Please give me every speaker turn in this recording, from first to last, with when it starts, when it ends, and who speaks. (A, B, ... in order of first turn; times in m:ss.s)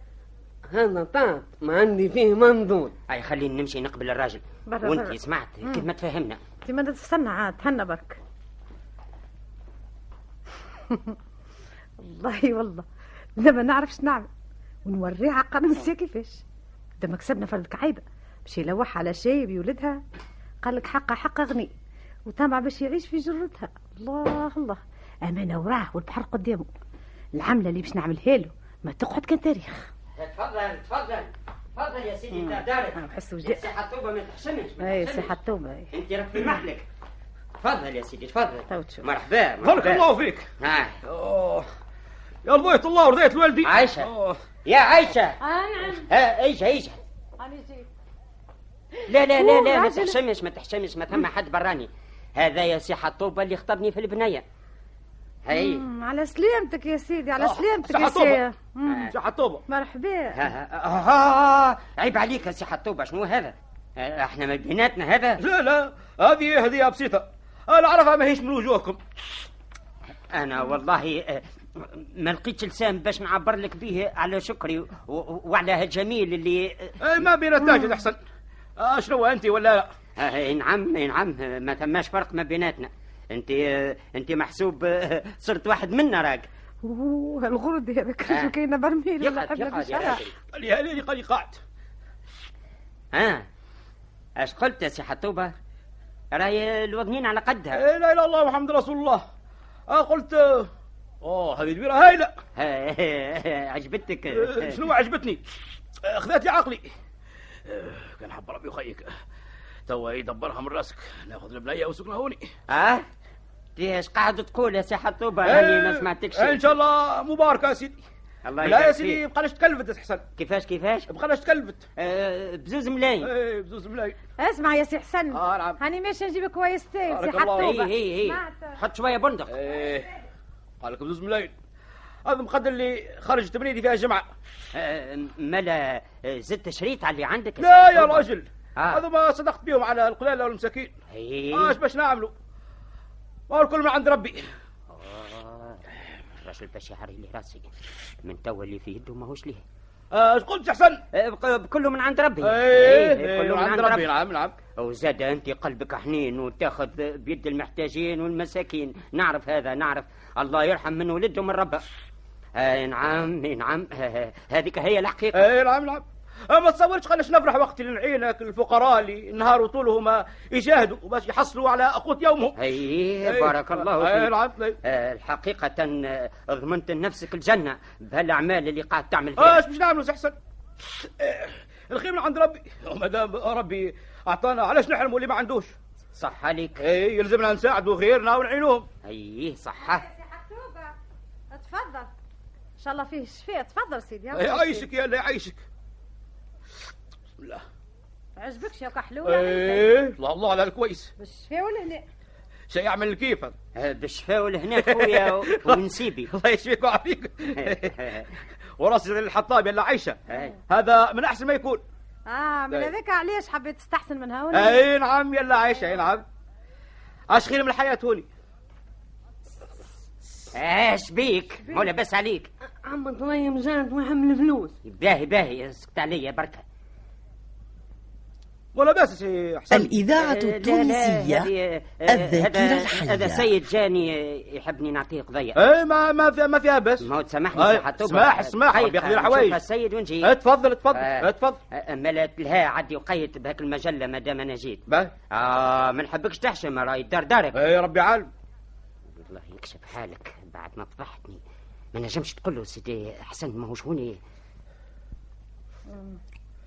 0:00.7-0:02.9 A
0:03.1-0:06.4 B
0:04.7-0:05.8 C
0:06.6-0:08.2 C
0:10.9-0:11.1 C
0:12.0-0:12.8 C
0:13.4-0:14.3 C
0:14.8-0:16.4 C
0:17.0-0:20.0 C
0:20.6-0:21.7 C
0:22.3-0:26.7 C
0:27.4-0:29.9 C
0:30.2-0:35.3 B
0:33.0-0:33.6 C
0:34.8-0:35.9 C
0:35.9-0:36.8 B
0:37.6-0:40.0 B
0:38.7-0:39.0 C
0:39.6-0:40.5 D
0:40.6-0:41.0 B
0:41.0-0:41.6 D
0:42.4-0:44.4 D
0:43.6-0:44.1 B
0:44.6-0:45.4 B
0:45.4-0:46.1 C
0:45.9-0:47.0 B
0:47.4-0:47.9 C
0:49.1-0:54.4 B
0:49.4-0:50.2 C
0:55.4-0:55.8 B
0:55.5-0:59.1 C
0:57.4-0:58.4 D
0:58.8-0:59.1 B
0:59.1-0:59.6 D
0:59.7-1:00.4 C
1:00.3-1:05.4 B
1:05.4-1:09.0 D
1:10.3-1:17.0 B
1:17.0-1:18.2 D
1:18.8-1:19.9 D
1:20.2-1:26.5 B
1:26.8-1:30.2 C
1:29.2-1:30.3 B
1:30.5-1:31.6 D
1:33.1-1:33.4 B
1:34.4-1:35.5 B
1:36.3-1:37.8 B
1:37.7-1:39.2 D
1:39.9-1:40.7 D
1:41.2-1:42.3 D
1:42.6-1:44.8 B
1:44.3-1:45.4 D
1:46.0-1:46.9 D
1:47.6-1:49.1 D
1:49.9-1:52.4 D
1:52.7-1:53.0 B
1:53.8-1:56.7 B
1:55.4-1:58.0 D
1:58.4-1:59.2 B
1:58.6-2:00.2 D
2:00.4-2:01.1 B
2:01.1-2:01.8 D
2:02.0-2:03.3 B
2:03.2-2:04.2 D
2:04.4-2:08.8 C
2:05.3-2:05.8 D
2:07.1-2:07.8 D
2:07.5-2:09.5 B
2:09.5-2:10.1 D
2:10.8-2:11.5 D
2:12.2-2:14.2 D
2:14.7-2:19.0 B
2:17.6-2:20.9 D
2:21.1-2:21.8 B
2:21.5-2:22.3 D
2:23.5-2:24.4 D
2:24.9-2:25.8 B
2:26.4-2:27.7 B
2:28.2-2:29.6 B
2:30.1-2:31.0 D
2:31.1-2:34.1 B
2:32.4-2:34.6 D
2:34.7-2:41.8 B
2:42.6-2:45.4 B
2:45.3-2:52.6 D
2:52.6-2:59.6 B
2:53.2-2:54.8 D
2:59.4-3:05.7 D
3:06.2-3:06.8 B
3:06.8-3:08.9 D
3:09.0-3:10.0 B
3:09.8-3:10.9 C
3:11.5-3:12.1 C
3:12.8-3:14.9 C
3:14.3-3:15.6 D
3:17.4-3:17.6 D
3:18.4-3:20.0 C
3:19.2-3:21.1 D
3:21.2-3:22.0 C
3:22.7-3:23.5 D
3:23.8-3:26.3 B
3:24.8-3:28.0 D
3:27.6-3:28.3 B
3:28.8-3:31.8 D
3:30.3-3:30.6 B
3:32.3-3:34.8 C
3:34.5-3:36.2 D
3:37.3-3:38.3 D
3:40.5-3:42.5 B
3:42.8-3:44.8 A
3:44.8-3:46.6 B
3:48.7-3:49.9 D
3:49.7-3:51.5 E
3:50.1-3:55.6 B
3:52.1-3:53.5 E
3:55.5-3:59.6 D
3:57.0-4:00.3 B
4:00.2-4:01.6 D
4:00.9-4:07.6 B
4:04.9-4:05.1 D
4:07.5-4:08.3 D
4:09.1-4:11.4 B
4:11.9-4:14.2 B
4:15.9-4:16.2 C